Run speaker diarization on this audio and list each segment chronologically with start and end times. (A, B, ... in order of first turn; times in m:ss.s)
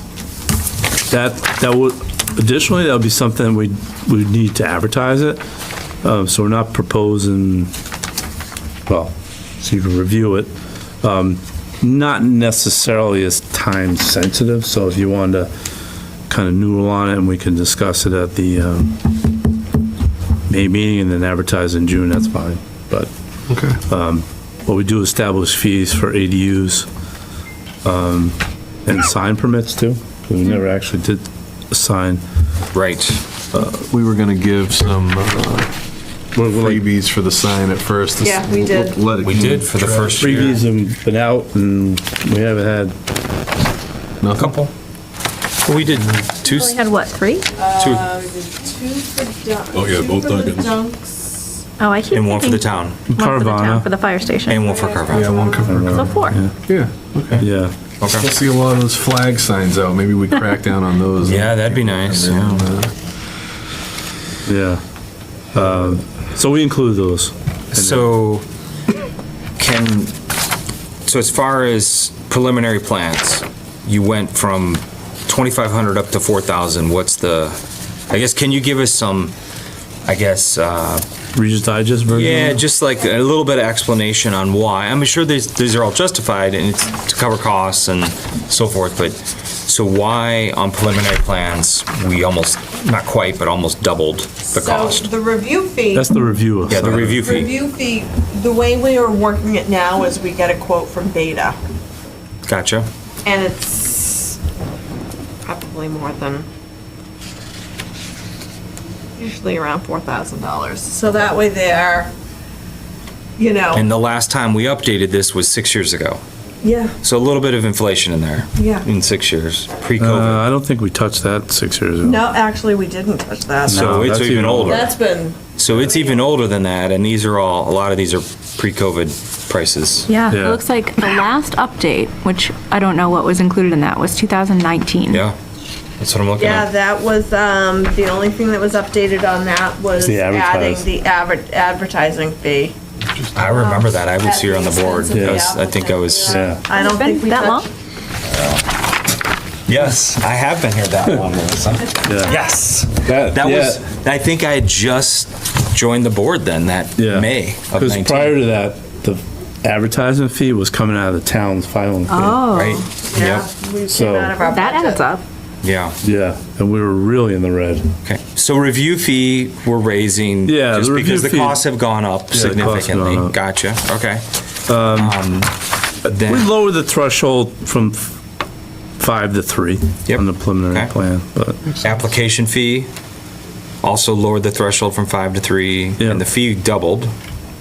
0:01.1-0:05.4 A
0:06.0-0:07.7 A
0:08.9-0:10.5 A
0:11.0-0:15.5 A
0:16.3-0:19.2 A
0:20.5-0:23.1 A
0:23.5-0:23.8 B
0:23.8-0:26.9 A
0:27.8-0:32.2 A
0:32.7-0:33.2 C
0:33.8-0:35.7 B
0:36.4-0:36.8 A
0:36.5-0:40.5 B
0:38.2-0:39.0 D
0:39.2-0:40.6 C
0:40.2-0:43.0 A
0:44.2-0:44.6 B
0:44.4-0:44.7 C
0:45.6-0:46.8 C
0:46.4-0:47.5 E
0:47.6-0:51.6 D
0:47.8-0:48.1 C
0:49.7-0:50.8 B
0:51.8-0:54.7 E
0:52.1-0:53.0 C
0:53.1-0:53.9 A
0:54.5-0:55.4 C
0:54.5-0:55.8 D
0:55.1-0:57.4 B
0:55.6-0:56.5 A
0:55.8-0:56.4 E
0:57.4-0:57.7 A
0:58.0-0:58.3 C
0:58.1-1:02.9 B
1:01.2-1:02.7 C
1:04.5-1:04.8 A
1:05.5-1:08.1 A
1:07.7-1:08.4 C
1:09.6-1:10.2 C
1:11.1-1:17.6 C
1:18.1-1:19.3 C
1:20.1-1:21.0 C
1:21.4-1:22.6 A
1:22.1-1:35.1 C
1:34.5-1:36.1 D
1:35.9-1:37.2 A
1:36.7-1:37.6 C
1:37.0-1:41.6 D
1:42.5-1:42.9 C
1:43.2-1:44.4 D
1:45.4-1:46.5 D
1:49.2-1:52.1 D
1:53.4-1:53.9 D
1:53.7-1:56.2 C
1:56.6-1:57.0 D
1:57.0-2:00.4 C
1:58.6-1:58.8 D
2:00.0-2:02.3 A
2:02.0-2:04.1 D
2:03.7-2:04.9 A
2:03.7-2:04.9 C
2:04.6-2:06.2 D
2:05.6-2:10.1 C
2:10.1-2:15.2 E
2:10.3-2:10.6 A
2:15.1-2:15.4 C
2:16.0-2:16.7 C
2:16.4-2:22.8 D
2:20.0-2:20.9 A
2:23.4-2:26.5 C
2:23.4-2:27.7 D
2:25.1-2:25.5 A
2:26.2-2:26.6 A
2:26.7-2:27.7 E
2:28.3-2:28.6 C
2:29.7-2:38.4 C
2:32.0-2:32.4 A
2:33.0-2:33.8 A
2:37.0-2:42.4 A
2:42.1-2:42.9 E
2:42.5-2:43.5 C
2:43.0-2:45.1 D
2:43.9-2:44.4 A
2:44.4-2:45.2 E
2:45.6-2:46.0 C
2:46.0-2:47.9 A
2:48.0-2:54.3 C
2:50.4-2:51.6 A
2:52.3-2:53.4 A
2:54.7-2:55.2 A
2:54.8-2:56.5 C
2:56.2-2:58.2 A
2:59.0-3:01.8 A
3:00.1-3:01.0 C
3:01.8-3:02.9 C
3:03.8-3:07.1 C